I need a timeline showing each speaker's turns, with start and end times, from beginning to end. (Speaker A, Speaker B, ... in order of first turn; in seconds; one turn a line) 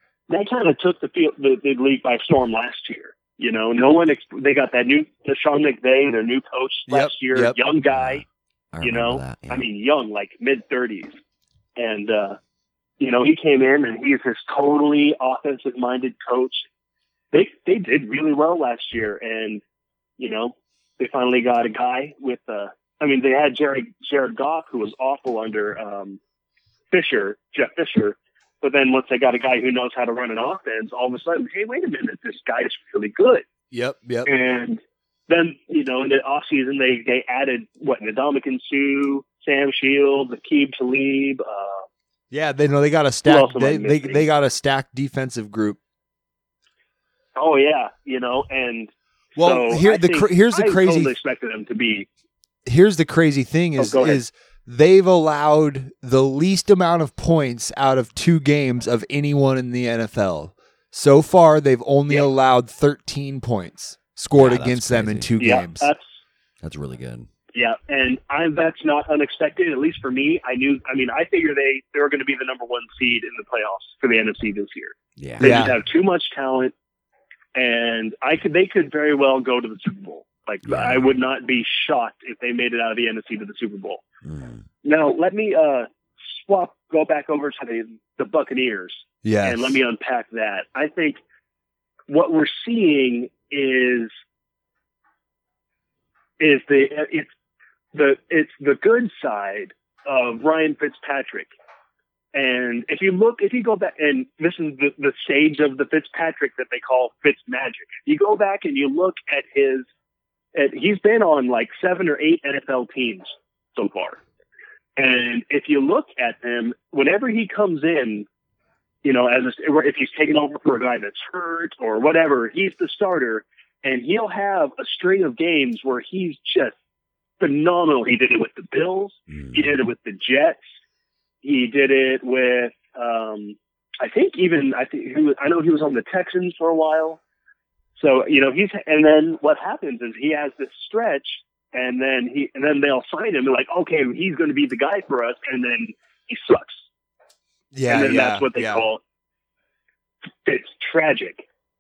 Speaker A: 0.3-8.2
Speaker B: 6.9-7.6
Speaker C: 7.9-9.7
Speaker A: 8.8-11.2
Speaker A: 11.8-12.4
Speaker A: 13.0-16.7
Speaker A: 17.3-19.6
Speaker A: 20.2-26.2
Speaker A: 26.9-33.5
Speaker B: 33.7-34.3
Speaker A: 34.3-41.8
Speaker B: 42.3-45.8
Speaker A: 43.3-44.2
Speaker A: 47.4-52.1
Speaker B: 49.4-51.1
Speaker B: 52.7-65.9
Speaker A: 53.8-54.2
Speaker C: 64.3-65.3
Speaker A: 65.4-66.1
Speaker C: 66.6-67.3
Speaker A: 67.5-76.7
Speaker C: 75.2-75.7
Speaker B: 75.4-75.8
Speaker A: 77.5-84.0
Speaker C: 80.7-81.0
Speaker C: 84.2-84.7
Speaker A: 84.8-91.2
Speaker B: 89.2-89.8
Speaker A: 92.1-94.1
Speaker A: 96.4-97.3
Speaker A: 97.9-101.5
Speaker A: 102.3-109.9
Speaker A: 110.5-114.2
Speaker A: 115.0-118.3
Speaker A: 119.0-126.7
Speaker A: 127.4-130.6
Speaker C: 129.3-129.7
Speaker A: 131.4-137.2
Speaker A: 138.0-146.8
Speaker B: 147.7-148.9
Speaker A: 147.9-149.0
Speaker A: 150.4-151.4